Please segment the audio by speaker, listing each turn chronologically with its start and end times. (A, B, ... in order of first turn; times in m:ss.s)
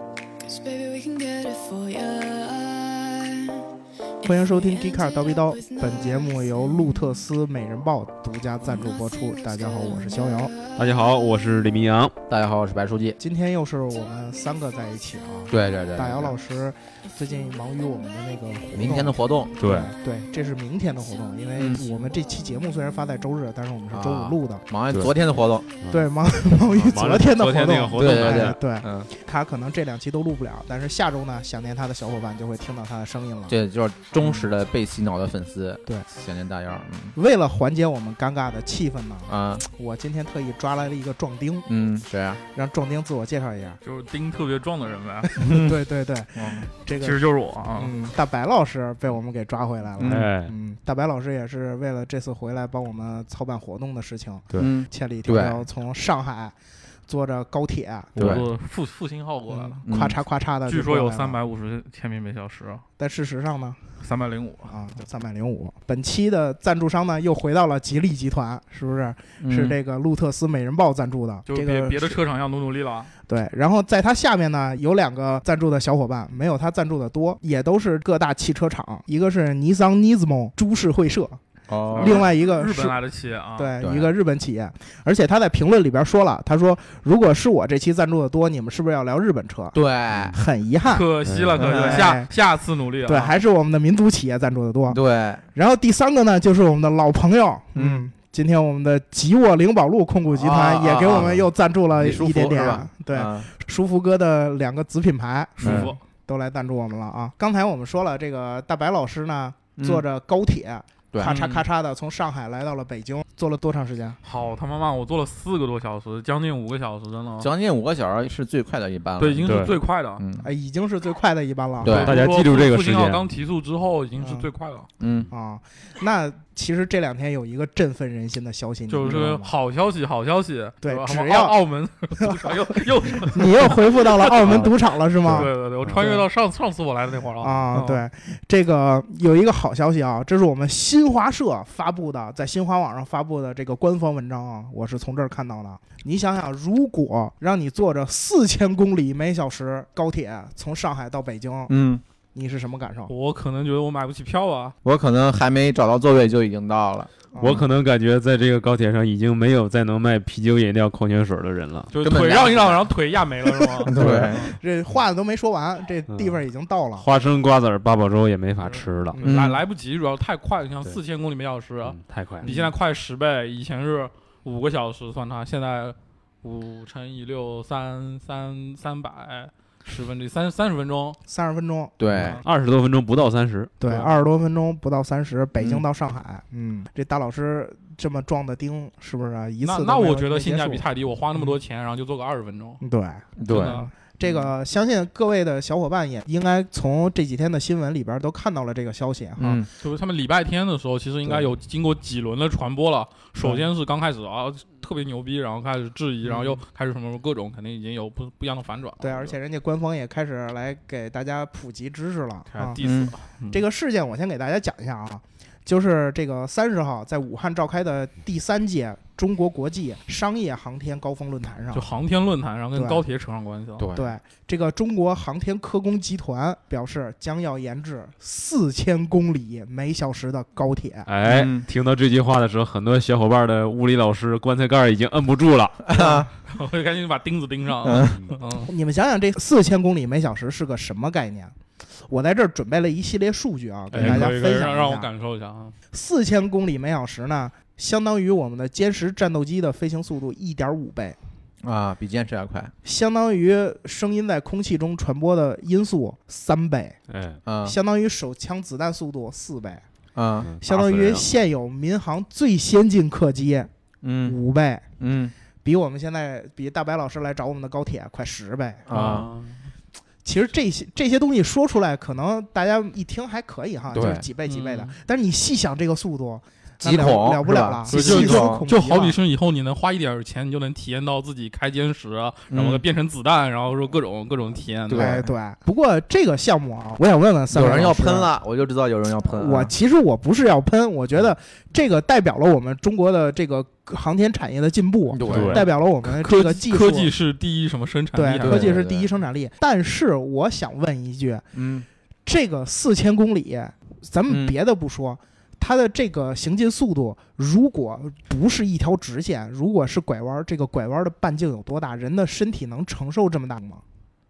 0:00.4-0:03.7 A
0:04.2-0:07.2 A
0:04.2-0:10.5 B
0:08.6-0:11.3 A
0:10.8-0:12.1 C
0:12.3-0:13.2 D
0:13.2-0:24.6 B
0:15.5-0:16.4 D
0:17.3-0:18.1 A
0:18.7-0:19.6 D
0:19.5-0:19.9 A
0:19.6-0:19.9 C
0:21.1-0:22.6 A
0:21.6-0:21.8 D
0:23.9-0:25.7 D
0:25.9-0:33.6 B
0:26.7-0:28.9 C
0:28.0-0:29.1 D
0:33.5-0:37.2 D
0:37.2-0:41.7 B
0:39.3-0:39.7 D
0:41.7-0:42.4 D
0:42.5-0:43.8 B
0:43.8-0:45.3 E
0:45.3-0:47.2 B
0:45.4-0:45.8 D
0:46.4-0:46.7 D
0:47.0-0:47.9 E
0:47.8-0:56.6 B
0:50.0-0:50.3 D
0:50.0-0:50.5 C
0:54.6-0:55.6 D
0:57.1-0:58.1 B
0:58.2-0:58.4 D
0:58.2-0:59.8 E
0:59.5-1:01.4 B
0:59.8-1:00.2 D
1:00.7-1:02.8 E
1:03.0-1:03.8 B
1:04.0-1:04.8 E
1:04.7-1:12.2 B
1:09.4-1:09.8 D
1:11.5-1:13.1 E
1:13.3-1:21.4 B
1:21.7-1:22.3 D
1:21.9-1:23.8 E
1:22.0-1:23.0 B
1:23.6-1:29.8 B
1:23.8-1:24.1 D
1:29.7-1:30.4 D
1:30.3-1:32.3 B
1:30.9-1:33.4 E
1:31.3-1:31.6 C
1:31.6-1:32.1 D
1:33.1-1:35.0 B
1:34.9-1:35.4 D
1:35.5-1:54.2 B
1:37.8-1:38.1 D
1:40.3-1:41.4 D
1:41.1-1:41.4 C
1:42.0-1:43.5 D
1:45.6-1:45.9 D
1:45.6-1:46.0 E
1:49.8-1:50.0 D
1:51.1-1:51.4 D
1:51.2-1:51.6 E
1:54.2-1:57.5 E
1:57.4-1:59.6 D
1:59.2-2:00.2 E
1:59.5-1:59.8 C
2:00.2-2:00.5 D
2:00.4-2:02.1 B
2:01.8-2:02.2 D
2:01.9-2:04.9 E
2:01.9-2:03.2 C
2:04.2-2:04.5 B
2:05.0-2:05.3 D
2:05.3-2:09.5 B
2:08.9-2:14.7 E
2:10.8-2:11.6 B
2:12.2-2:12.5 B
2:13.3-2:16.2 B
2:15.3-2:16.0 C
2:15.3-2:18.0 E
2:17.4-2:31.7 B
2:31.7-2:32.0 D
2:32.4-2:33.1 B
2:33.1-2:34.7 E
2:34.8-2:37.1 D
2:37.4-2:37.6 B
2:37.4-2:41.9 C
2:41.9-2:43.9 E
2:42.0-2:42.9 D
2:43.8-2:44.5 D
2:43.9-2:47.0 B
2:44.0-2:44.3 C
2:46.1-2:46.4 C
2:47.0-2:49.2 C
2:48.6-3:01.2 E
2:49.2-2:49.6 D
2:51.9-2:52.5 C
2:52.4-2:52.7 B
3:01.3-3:02.0 B
3:02.0-3:02.4 D
3:02.4-3:03.7 C
3:03.8-3:10.8 B
3:03.8-3:04.1 E
3:05.6-3:05.8 D
3:09.6-3:12.8 E
3:12.8-3:19.6 B
3:13.4-3:14.5 D
3:13.5-3:13.9 E
3:19.4-3:19.7 D
3:19.4-3:29.4 E
3:26.2-3:26.6 B
3:29.0-3:32.8 B
3:32.5-3:33.6 E
3:32.8-3:33.1 D
3:33.5-3:41.9 B
3:41.7-3:43.9 E
3:42.8-3:43.0 B
3:43.8-3:44.2 D
3:44.0-3:51.1 B
3:51.1-3:55.8 C
3:51.3-3:51.6 D
3:55.9-3:56.3 D
3:56.0-3:56.3 B
3:56.5-3:58.7 E
3:57.8-3:58.2 D
3:58.7-4:01.6 B
4:02.1-4:05.1 B
4:03.9-4:05.7 E
4:04.0-4:04.3 C
4:05.9-4:11.2 B
4:11.6-4:12.7 D
4:12.8-4:17.0 B
4:17.1-4:17.4 C
4:17.4-4:17.8 D
4:17.6-4:19.8 B
4:20.2-4:20.5 D
4:20.4-4:21.3 C
4:20.6-4:23.7 B
4:24.0-4:24.4 D
4:24.2-4:24.9 B
4:25.0-4:25.3 D
4:25.6-4:29.2 B
4:28.9-4:29.3 D
4:28.9-4:29.6 E
4:30.2-4:39.2 B
4:33.9-4:34.3 D
4:34.5-4:34.9 E
4:36.8-4:38.7 D
4:37.9-4:45.2 E
4:42.5-4:42.8 D
4:44.9-4:45.3 D
4:44.9-4:48.3 B
4:47.5-4:49.7 D
4:49.3-4:57.1 B
4:55.1-4:55.7 D
4:55.3-4:55.7 C
4:56.0-4:58.8 E
4:58.2-5:01.4 B
4:58.4-4:59.1 D
5:01.5-5:01.9 D
5:02.3-5:13.8 B
5:04.3-5:04.6 D